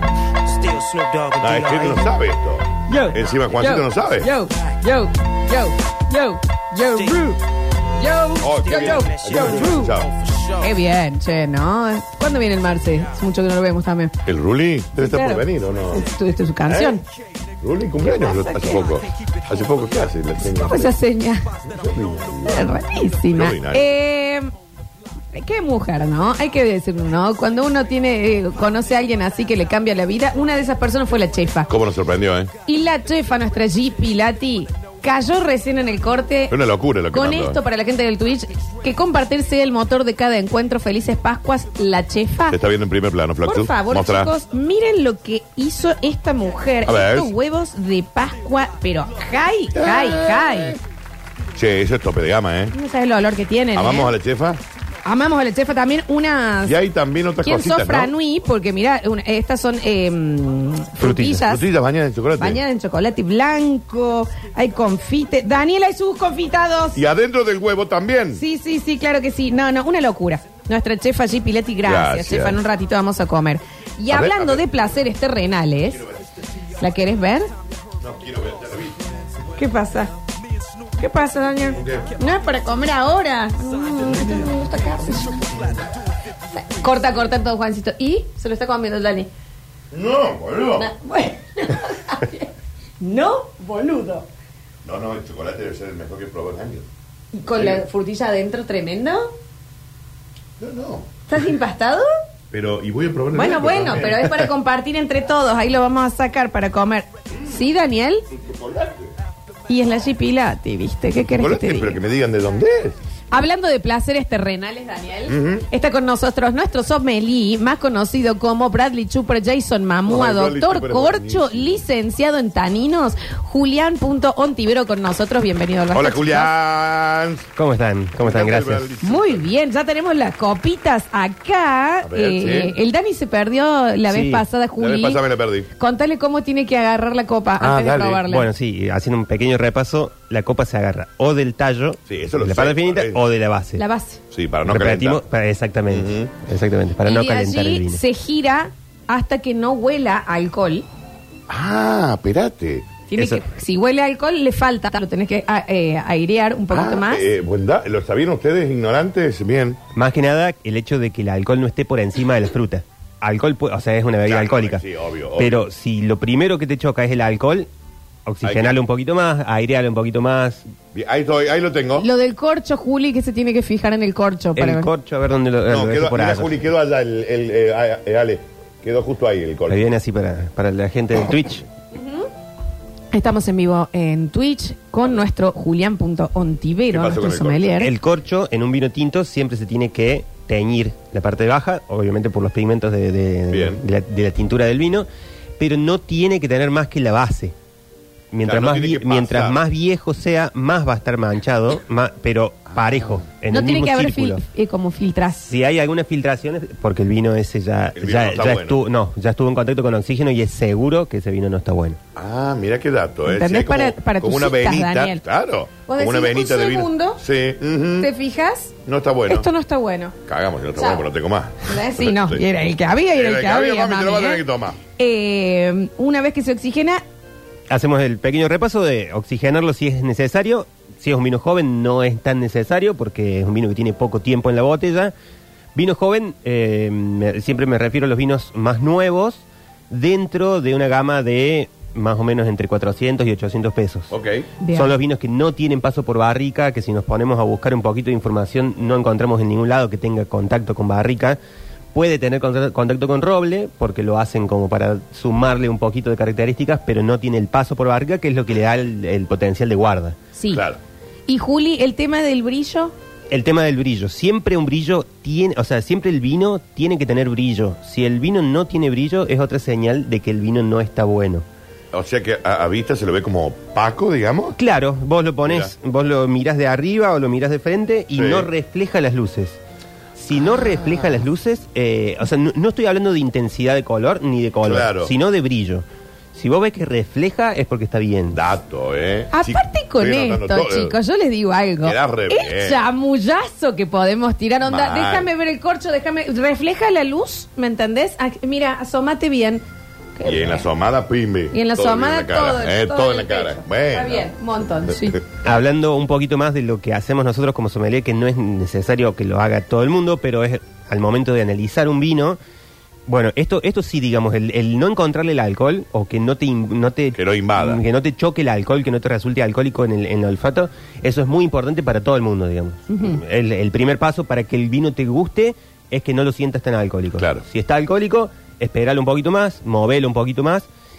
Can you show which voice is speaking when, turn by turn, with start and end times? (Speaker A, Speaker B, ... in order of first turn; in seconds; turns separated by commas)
Speaker A: 0.4-2.1, Speaker B: 1.4-4.3, Speaker C: 2.9-7.4, Speaker A: 6.8-7.3, Speaker C: 8.0-9.9, Speaker A: 8.4-10.8, Speaker B: 8.4-10.1, Speaker C: 10.6-14.1, Speaker B: 14.2-16.0, Speaker C: 15.0-17.0, Speaker B: 16.7-17.0, Speaker B: 17.6-20.9, Speaker C: 20.6-21.5, Speaker B: 21.6-22.8, Speaker C: 22.4-24.5, Speaker B: 23.3-23.9, Speaker C: 25.3-31.7, Speaker B: 31.7-32.5, Speaker C: 32.6-36.5, Speaker B: 36.5-37.6, Speaker C: 37.1-42.6, Speaker B: 42.5-44.3, Speaker C: 43.4-50.8, Speaker B: 46.8-47.3, Speaker B: 49.7-50.8, Speaker B: 51.5-52.7, Speaker C: 52.7-54.1, Speaker B: 53.7-54.6, Speaker C: 55.0-56.8, Speaker B: 56.6-58.1, Speaker C: 57.4-61.6, Speaker D: 61.0-61.4, Speaker B: 61.5-62.6, Speaker C: 62.4-67.0, Speaker B: 66.9-68.4, Speaker C: 68.3-76.0, Speaker B: 71.8-72.6, Speaker B: 74.1-74.7, Speaker C: 76.8-77.5, Speaker B: 78.0-79.1, Speaker C: 79.5-80.1, Speaker C: 81.0-85.6, Speaker B: 81.8-82.1, Speaker B: 85.5-85.8, Speaker C: 86.5-89.3, Speaker B: 89.9-90.9, Speaker C: 90.8-92.5, Speaker C: 93.0-94.3, Speaker B: 94.8-96.8, Speaker C: 97.3-99.3, Speaker B: 97.5-97.8, Speaker B: 100.6-101.1, Speaker C: 101.3-102.1, Speaker B: 102.5-104.5, Speaker C: 103.3-108.2, Speaker B: 108.3-109.1, Speaker C: 109.7-112.0, Speaker B: 111.3-113.0, Speaker C: 113.3-126.5, Speaker B: 115.3-115.6, Speaker B: 120.1-121.8, Speaker B: 125.9-127.5, Speaker D: 127.5-128.9, Speaker B: 128.2-129.5, Speaker C: 129.0-135.2, Speaker B: 132.0-132.7, Speaker D: 134.1-134.4, Speaker B: 134.8-135.7, Speaker C: 135.7-138.5, Speaker B: 137.6-138.2, Speaker D: 138.2-143.8, Speaker B: 142.1-143.2, Speaker C: 143.8-144.2, Speaker B: 144.3-145.2, Speaker D: 144.7-148.0, Speaker B: 145.9-146.3, Speaker C: 147.1-150.8, Speaker B: 151.5-152.9, Speaker C: 153.1-157.2, Speaker D: 153.2-153.4, Speaker B: 156.7-159.8, Speaker D: 159.9-164.8, Speaker B: 164.2-165.7, Speaker D: 165.4-167.7, Speaker D: 168.2-170.7, Speaker B: 168.4-168.8, Speaker B: 170.9-172.1, Speaker C: 171.9-174.9, Speaker D: 174.6-176.6, Speaker B: 175.7-179.8, Speaker D: 179.7-181.7, Speaker C: 181.9-182.3, Speaker C: 183.1-187.9, Speaker B: 186.9-187.6, Speaker D: 187.8-195.1, Speaker B: 193.5-193.8, Speaker D: 195.6-197.5, Speaker D: 198.3-204.4, Speaker B: 198.4-199.6, Speaker C: 203.5-205.4, Speaker D: 205.4-212.0, Speaker B: 207.9-208.8, Speaker B: 212.2-218.1, Speaker C: 213.3-215.2, Speaker C: 215.8-217.2, Speaker C: 218.0-218.7, Speaker B: 218.8-219.5, Speaker C: 219.3-220.1, Speaker B: 220.2-222.4, Speaker C: 220.8-221.0, Speaker C: 221.6-224.4, Speaker B: 223.1-224.8, Speaker C: 225.0-227.0, Speaker D: 227.7-235.1, Speaker D: 235.7-244.1, Speaker B: 244.1-244.5, Speaker C: 244.6-244.9, Speaker D: 244.7-251.4, Speaker D: 251.9-260.2, Speaker C: 260.3-260.6, Speaker B: 260.5-260.8, Speaker C: 261.3-262.9, Speaker D: 263.3-271.4, Speaker B: 271.9-274.6, Speaker D: 274.6-279.6, Speaker B: 275.4-275.7, Speaker B: 278.1-278.5, Speaker D: 280.1-288.4, Speaker B: 284.6-285.1, Speaker B: 288.3-290.9, Speaker C: 289.3-299.6, Speaker B: 291.8-292.8, Speaker B: 294.6-295.3, Speaker C: 300.2-300.6, Speaker B: 300.2-304.3, Speaker C: 301.5-305.2, Speaker D: 305.4-312.4, Speaker D: 313.1-330.7, Speaker B: 317.1-317.8, Speaker C: 322.9-323.2, Speaker B: 327.2-327.4